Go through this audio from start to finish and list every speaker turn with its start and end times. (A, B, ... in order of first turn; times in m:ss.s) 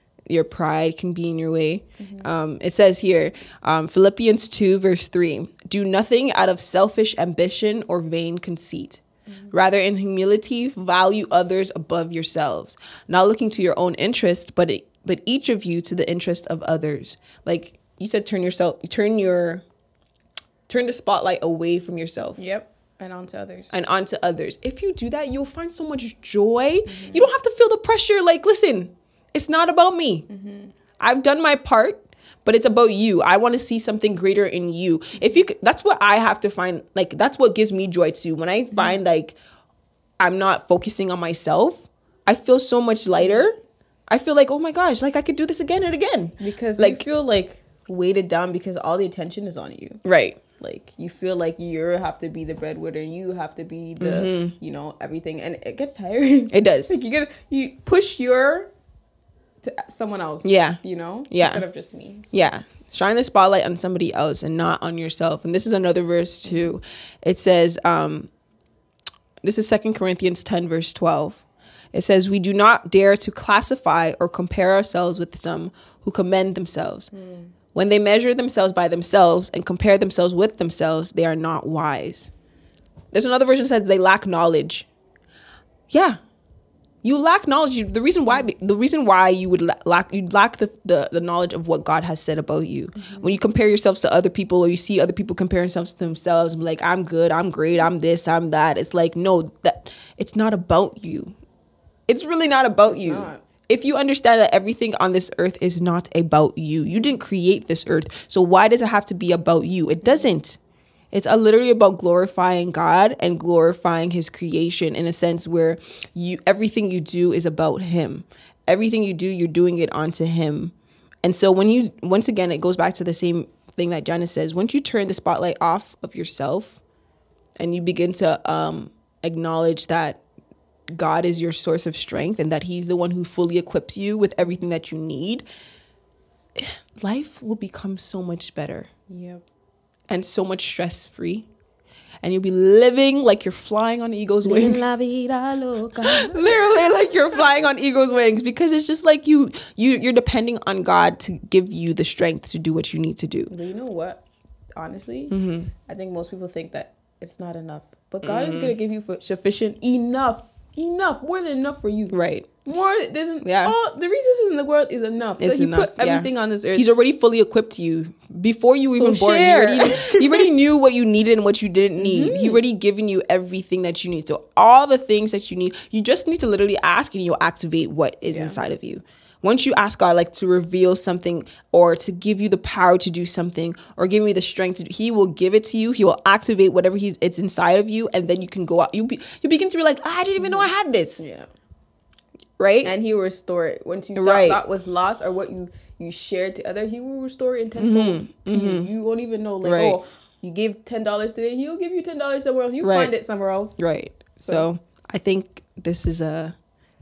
0:00.3-0:19.6 A
0:02.0-0:02.3 B
0:20.7-0:22.4 A
0:22.4-0:23.7 B
0:23.7-0:30.2 A
0:26.9-0:27.2 B
0:30.3-0:30.7 B
0:31.0-0:39.4 A
0:40.2-0:43.6 A
0:44.1-0:47.0 A
0:46.4-0:50.0 B
0:50.0-0:50.4 A
0:50.6-0:58.7 B
0:54.0-0:54.5 A
0:56.5-0:57.0 A
0:59.6-1:02.3 B
1:00.4-1:01.6 A
1:02.3-1:08.3 A
1:09.4-1:17.1 A
1:17.1-1:17.5 B
1:17.7-1:22.3 A
1:23.1-1:24.9 A
1:25.9-1:26.2 A
1:27.0-1:41.3 A
1:33.0-1:33.4 B
1:42.1-1:50.6 A
1:42.9-1:43.4 B
1:51.1-2:06.8 A
2:07.6-2:10.2 A
2:10.9-2:15.4 A
2:16.5-2:18.9 A
2:19.1-2:19.4 B
2:20.1-2:21.5 A
2:22.2-2:24.9 A
2:24.4-2:26.8 B
2:26.0-2:33.5 A
2:33.5-2:34.2 B
2:34.7-2:35.4 B
2:35.3-2:35.7 A
2:35.9-2:46.8 B
2:38.2-2:38.7 A
2:42.1-2:42.5 A
2:43.4-2:43.7 A
2:45.4-3:11.2 A
2:48.9-2:50.4 B
2:52.0-2:52.6 B
2:58.3-2:58.6 B
3:10.4-3:10.7 B
3:11.2-3:11.5 B
3:12.6-3:12.9 A
3:12.8-3:23.8 B
3:14.1-3:14.6 A
3:17.8-3:18.9 A
3:19.6-3:20.0 A
3:22.8-3:23.1 A
3:23.8-3:26.5 A
3:24.4-3:24.6 B